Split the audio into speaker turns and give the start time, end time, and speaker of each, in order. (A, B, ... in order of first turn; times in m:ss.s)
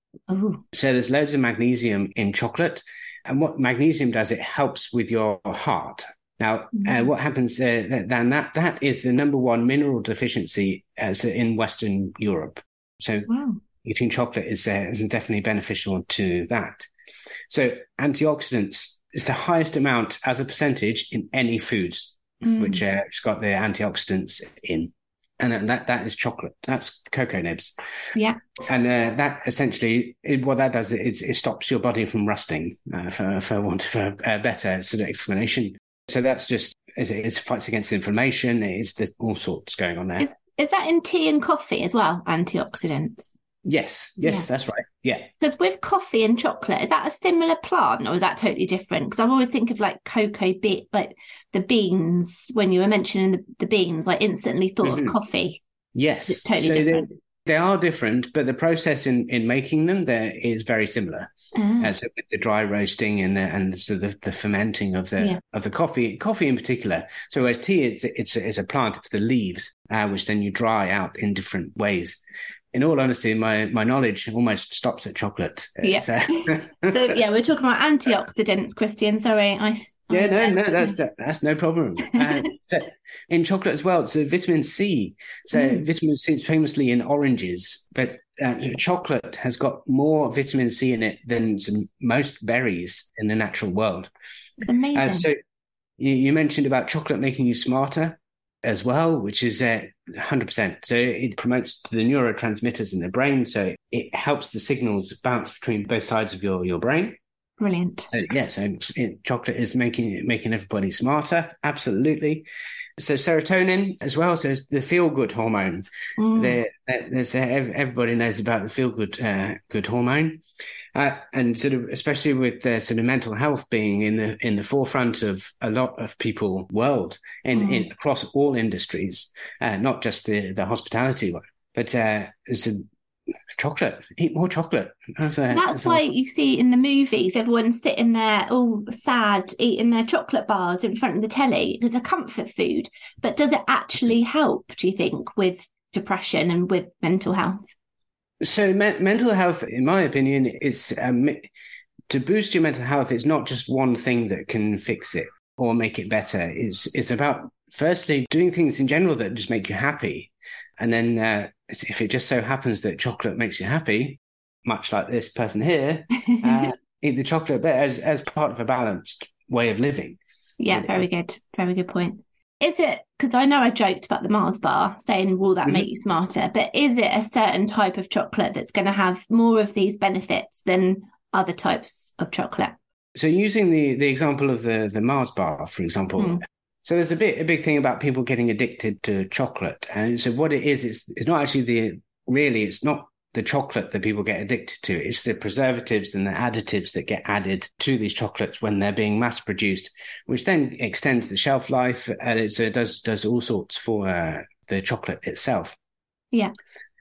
0:00.3-0:00.6 A
0:00.7-0:13.3 B
0:06.7-0:07.1 A
0:13.3-0:13.6 A
0:13.8-0:16.9 B
0:17.5-0:27.7 B
0:22.4-0:22.8 A
0:28.1-0:28.4 A
0:28.6-0:40.3 B
0:40.2-0:43.3 A
0:43.6-0:45.3 B
0:45.4-0:55.6 A
0:54.8-0:55.1 B
0:55.9-1:12.2 B
0:56.3-0:57.1 A
1:01.5-1:01.9 A
1:12.7-1:17.1 B
1:15.8-1:21.0 A
1:20.1-1:34.1 B
1:22.1-1:22.5 A
1:25.5-1:25.8 A
1:34.6-1:35.3 A
1:34.9-1:35.3 B
1:36.0-1:47.2 B
1:47.6-1:48.1 A
1:48.1-1:52.4 B
1:53.0-1:55.8 B
1:56.2-1:56.6 A
1:56.4-2:00.4 B
2:00.9-2:12.8 B
2:07.5-2:07.8 A
2:13.5-2:16.0 B
2:15.5-2:27.6 A
2:28.4-2:31.5 B
2:32.1-2:50.2 B
2:46.3-2:46.7 A
2:50.6-3:02.8 A
2:50.7-2:51.0 B
3:03.1-3:25.8 B
3:06.2-3:06.4 A